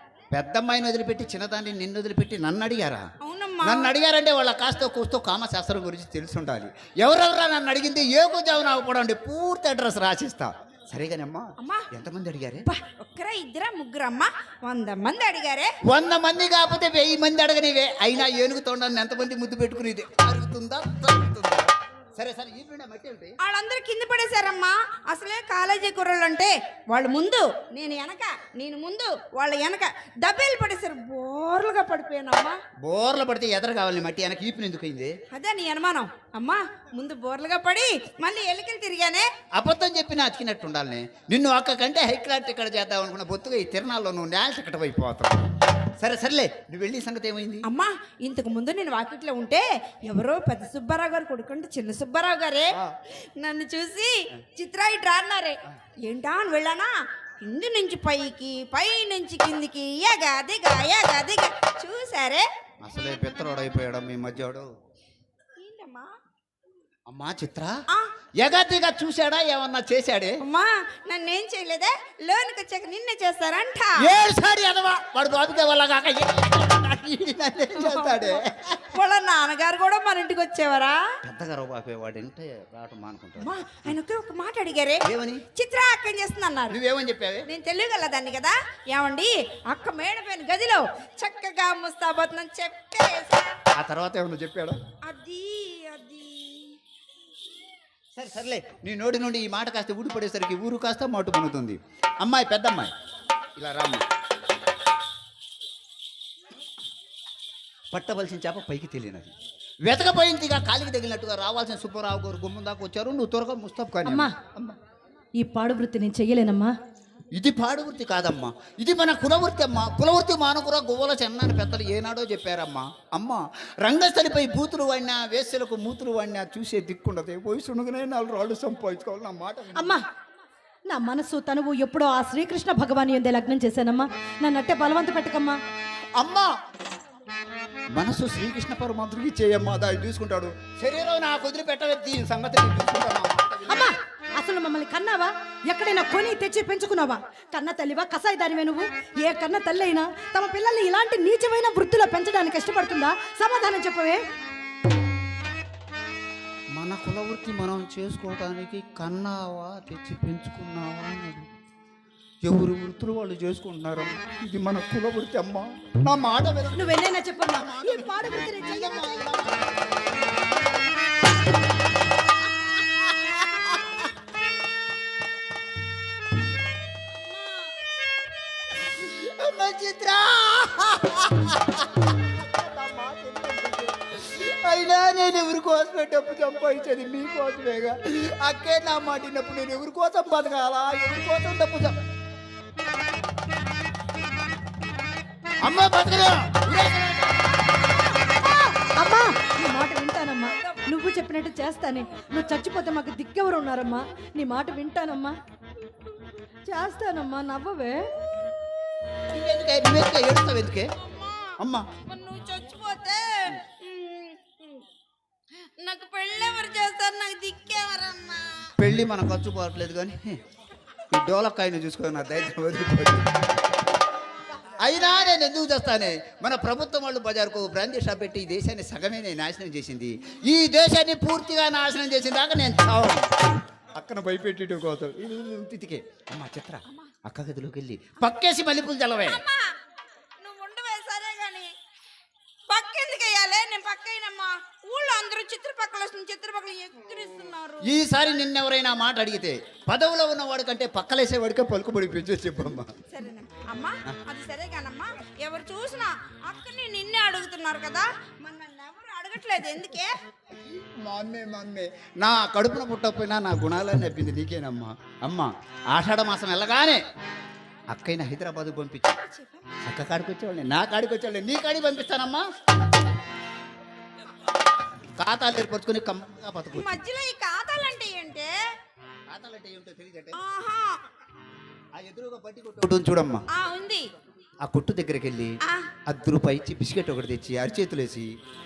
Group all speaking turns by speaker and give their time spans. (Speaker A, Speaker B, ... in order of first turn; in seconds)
Speaker A: 0.3-3.0, 3.6-12.6, 15.8-23.3, 32.8-35.1, 39.5-47.6, 62.8-64.7, 67.1-67.8, 68.4-70.4, 74.0-79.0, 81.2-83.9, 85.0-85.4, 86.7-87.5, 93.8-94.8, 98.1-102.9, 103.5-104.0, 107.9-109.3, 109.8-114.8, 117.3-130.0, 136.2-136.5, 137.9-143.9, 156.7-161.5, 162.4-170.2, 172.9-173.7, 178.8-191.9, 195.6-197.6, 209.3-210.9, 211.6-211.9, 218.8-220.4, 221.1-223.4, 224.8-239.4, 247.8-252.9, 260.6-267.0, 267.9-269.2, 269.8-272.4, 275.2-276.9, 279.3-280.4, 281.9-283.4, 284.6-285.5, 286.1-288.3
Speaker B: 3.2-3.9, 11.6-11.9, 12.7-15.7, 23.4-32.6, 35.3-39.3, 47.6-52.8, 53.4-56.9, 57.4-62.4, 65.6-66.1, 70.4-74.2, 77.7-81.0, 83.4-85.0, 85.5-86.8, 87.5-93.5, 95.1-96.8, 200.4-200.8, 211.0-214.8, 215.8-218.7, 239.2-239.7, 240.4-241.7, 242.7-247.9, 253.1-260.1, 269.2-269.7, 276.7-278.5, 280.3-281.0, 283.6-284.1
Speaker C: 114.0-114.3, 115.4-116.7, 129.7-130.0, 130.9-135.6, 143.7-154.2, 166.7-169.4, 198.4-205.3, 206.7-208.0